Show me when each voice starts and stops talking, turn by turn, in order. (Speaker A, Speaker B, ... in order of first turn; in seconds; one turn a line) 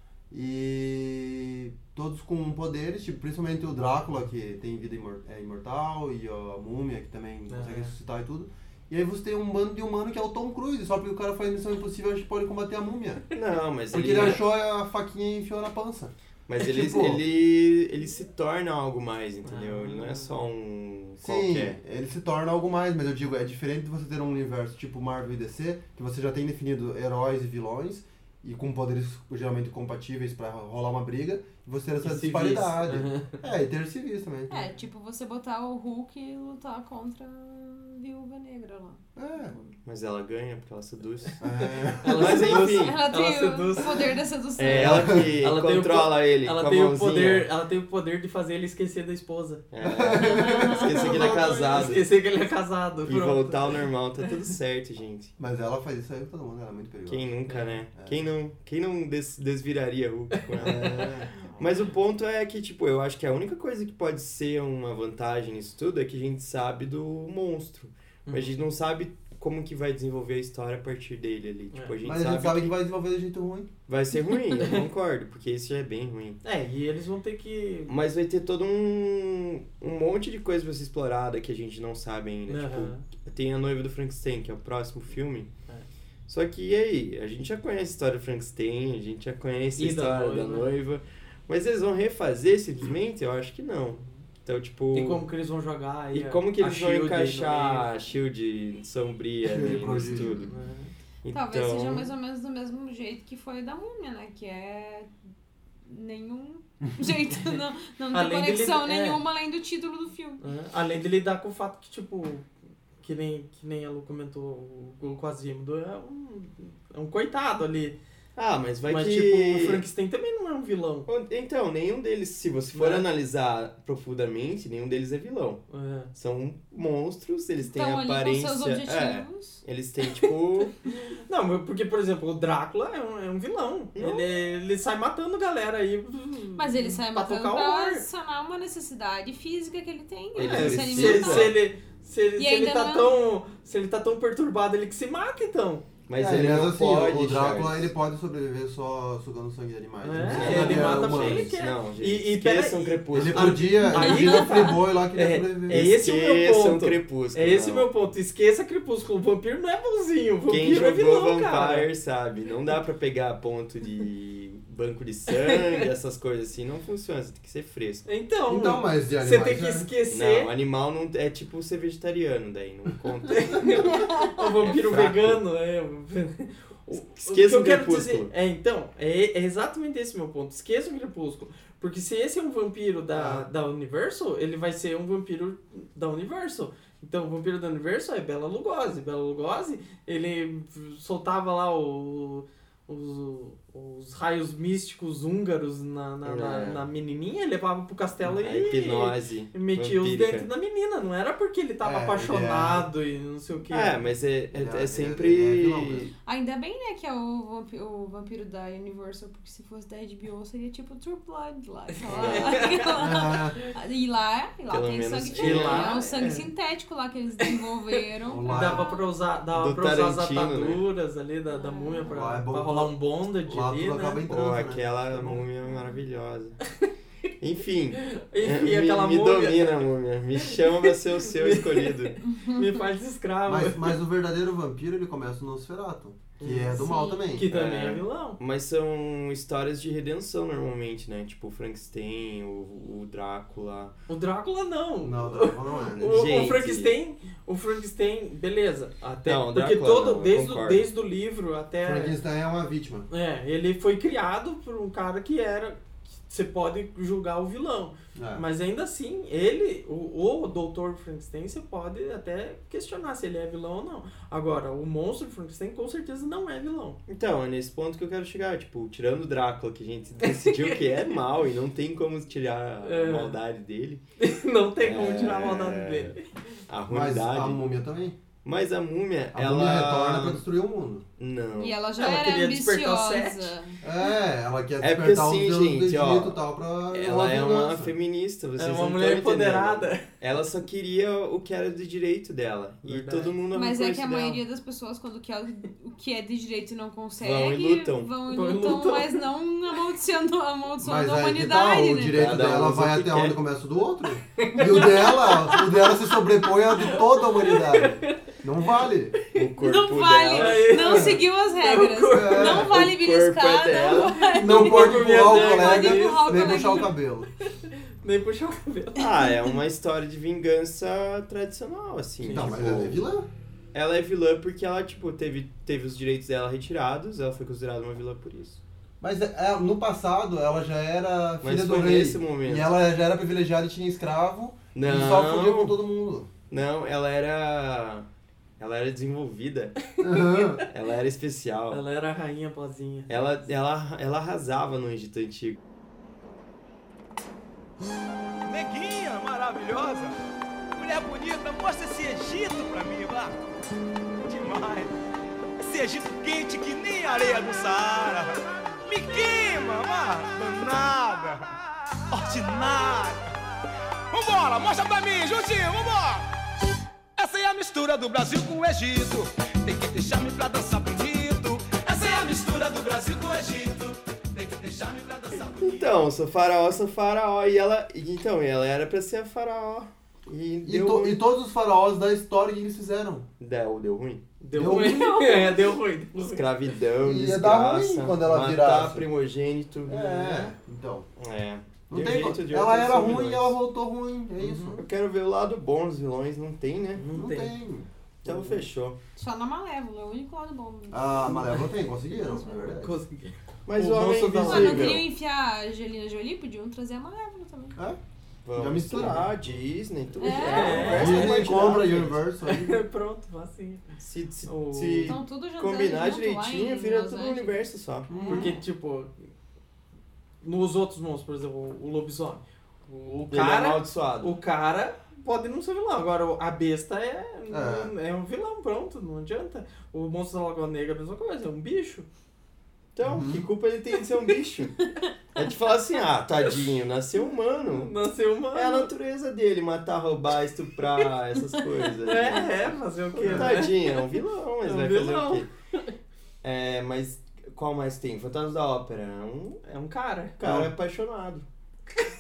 Speaker A: 0.3-13.3
Speaker B: 7.5-7.9
Speaker C: 13.3-14.4
Speaker A: 13.9-17.2
Speaker C: 16.5-21.8
Speaker B: 19.4-20.3
Speaker A: 21.2-34.6
Speaker B: 32.0-33.4
Speaker D: 34.5-39.7
Speaker A: 39.2-39.5
Speaker C: 39.9-41.5
Speaker A: 41.4-42.6
Speaker B: 41.6-44.0
Speaker C: 42.1-43.1
Speaker D: 42.5-45.0
Speaker C: 44.6-47.5
Speaker A: 44.7-45.3
Speaker B: 45.1-49.6
Speaker C: 49.7-52.1
Speaker A: 49.8-51.9
Speaker D: 50.2-51.4
Speaker B: 51.1-53.8
Speaker C: 53.1-55.3
Speaker A: 55.4-57.3
Speaker C: 57.1-72.7
Speaker B: 57.5-57.7
Speaker A: 58.0-58.3
Speaker B: 60.5-61.6
Speaker A: 60.6-61.3
Speaker B: 68.3-68.6
Speaker A: 72.0-73.7
Speaker C: 73.9-76.4
Speaker B: 76.4-77.9
Speaker C: 77.9-85.5
Speaker B: 82.5-83.1
Speaker C: 86.3-95.3
Speaker B: 89.8-90.7
Speaker B: 94.9-97.9
Speaker C: 96.1-100.5
Speaker A: 99.4-100.4
Speaker B: 100.4-100.9
Speaker C: 101.2-102.1
Speaker D: 101.3-105.1
Speaker D: 105.8-110.4
Speaker B: 108.1-109.2
Speaker B: 110.4-112.5
Speaker B: 113.0-118.0
Speaker C: 118.4-119.8
Speaker B: 118.9-121.1
Speaker C: 121.1-130.8
Speaker B: 122.7-123.1
Speaker B: 125.7-126.1
Speaker D: 127.6-129.6
Speaker B: 130.9-138.1
Speaker C: 134.0-134.3
Speaker D: 136.6-141.6
Speaker C: 140.3-141.6
Speaker B: 140.4-145.8
Speaker D: 142.4-143.2
Speaker C: 146.1-147.9
Speaker A: 146.2-151.5
Speaker B: 150.0-161.9
Speaker C: 150.2-153.8
Speaker A: 153.1-155.9
Speaker D: 153.9-154.7
Speaker C: 155.7-157.9
Speaker C: 160.5-168.1
Speaker B: 165.3-165.8
Speaker B: 168.1-170.5
Speaker A: 168.5-169.9
Speaker C: 170.1-174.0
Speaker B: 173.3-204.0
Speaker C: 174.6-175.4
Speaker C: 177.0-178.3
Speaker C: 196.2-196.9
Speaker C: 198.2-200.5
Speaker A: 201.8-202.9
Speaker C: 203.7-206.1
Speaker A: 204.5-206.1
Speaker D: 206.2-219.0
Speaker B: 212.1-213.3
Speaker C: 212.1-212.8
Speaker A: 213.0-213.6
Speaker C: 214.7-216.1
Speaker B: 215.3-216.5
Speaker A: 218.2-218.9
Speaker B: 218.5-224.2
Speaker C: 219.5-220.8
Speaker D: 221.5-222.2
Speaker A: 222.1-225.4
Speaker C: 224.3-226.6
Speaker C: 227.4-232.2
Speaker B: 227.9-229.9
Speaker B: 230.4-234.0
Speaker D: 232.2-232.8
Speaker A: 233.5-237.5
Speaker B: 236.4-236.8
Speaker D: 236.7-237.3
Speaker B: 237.3-238.4
Speaker C: 237.5-243.9
Speaker B: 244.1-252.2
Speaker A: 245.0-246.3
Speaker C: 246.0-247.0
Speaker C: 249.3-250.9
Speaker A: 251.8-253.1
Speaker B: 253.1-267.0
Speaker A: 258.1-258.4
Speaker C: 267.1-274.0
Speaker B: 270.2-271.0
Speaker B: 272.8-273.4
Speaker B: 274.2-276.3
Speaker C: 274.8-276.1
Speaker C: 276.7-277.6
Speaker A: 276.9-278.2
Speaker C: 278.4-280.4
Speaker A: 279.3-281.1
Speaker C: 281.2-281.8
Speaker D: 281.5-283.8
Speaker B: 282.0-283.6
Speaker A: 283.8-287.9
Speaker C: 284.8-286.4
Speaker C: 286.9-294.4
Speaker B: 288.6-290.1
Speaker B: 292.9-293.4
Speaker D: 293.5-302.2
Speaker C: 297.2-298.1
Speaker B: 298.3-299.2
Speaker A: 300.8-309.2
Speaker C: 302.1-303.4
Speaker B: 304.4-306.0
Speaker B: 306.6-308.2
Speaker C: 309.3-311.1
Speaker D: 309.6-316.9
Speaker B: 310.4-312.6
Speaker A: 312.1-312.9
Speaker C: 312.6-314.3
Speaker A: 314.3-317.3
Speaker B: 314.4-316.6
Speaker B: 317.5-319.1
Speaker C: 319.0-323.0
Speaker B: 322.2-322.6
Speaker A: 322.3-323.3
Speaker C: 323.7-328.6
Speaker A: 329.0-336.3
Speaker C: 331.4-332.7
Speaker C: 334.8-335.8
Speaker C: 336.5-338.1
Speaker C: 338.6-339.8
Speaker A: 340.0-340.6
Speaker C: 340.7-341.8
Speaker B: 341.7-343.1
Speaker C: 343.1-345.6
Speaker E: 348.4-350.2
Speaker E: 350.8-353.4
Speaker E: 354.2-354.9
Speaker E: 355.6-361.5
Speaker E: 362.1-363.4
Speaker E: 364.1-366.3
Speaker E: 367.2-375.9
Speaker C: 375.6-381.2
Speaker A: 380.6-383.3
Speaker C: 383.4-384.2
Speaker B: 384.4-386.5
Speaker A: 384.5-385.6
Speaker C: 386.2-390.0
Speaker A: 387.0-389.1
Speaker A: 389.9-391.1
Speaker B: 389.9-390.6
Speaker C: 391.2-393.6
Speaker A: 391.9-394.8
Speaker B: 394.4-394.8
Speaker C: 394.8-397.1
Speaker B: 397.0-397.6
Speaker A: 397.1-398.7
Speaker C: 398.2-399.0
Speaker D: 399.2-402.8
Speaker A: 400.9-403.0
Speaker B: 402.7-405.0
Speaker C: 403.7-405.1
Speaker D: 404.5-407.8
Speaker C: 408.4-412.2
Speaker A: 408.5-409.6
Speaker D: 410.2-411.2
Speaker B: 410.4-411.4
Speaker A: 410.8-412.8
Speaker B: 412.4-413.9
Speaker C: 414.0-418.1
Speaker B: 414.5-415.2
Speaker D: 415.1-417.6
Speaker A: 418.1-418.6
Speaker D: 418.1-418.5
Speaker B: 418.3-419.3
Speaker B: 420.4-432.1
Speaker C: 423.3-424.4
Speaker A: 427.5-427.9
Speaker C: 432.9-434.8
Speaker A: 433.0-433.5
Speaker C: 435.4-437.9
Speaker B: 437.7-438.9
Speaker C: 438.5-445.5
Speaker B: 442.0-443.9
Speaker A: 443.1-443.6
Speaker B: 444.6-445.9
Speaker C: 446.4-449.6
Speaker B: 449.6-450.4
Speaker C: 450.4-451.5
Speaker A: 450.4-450.7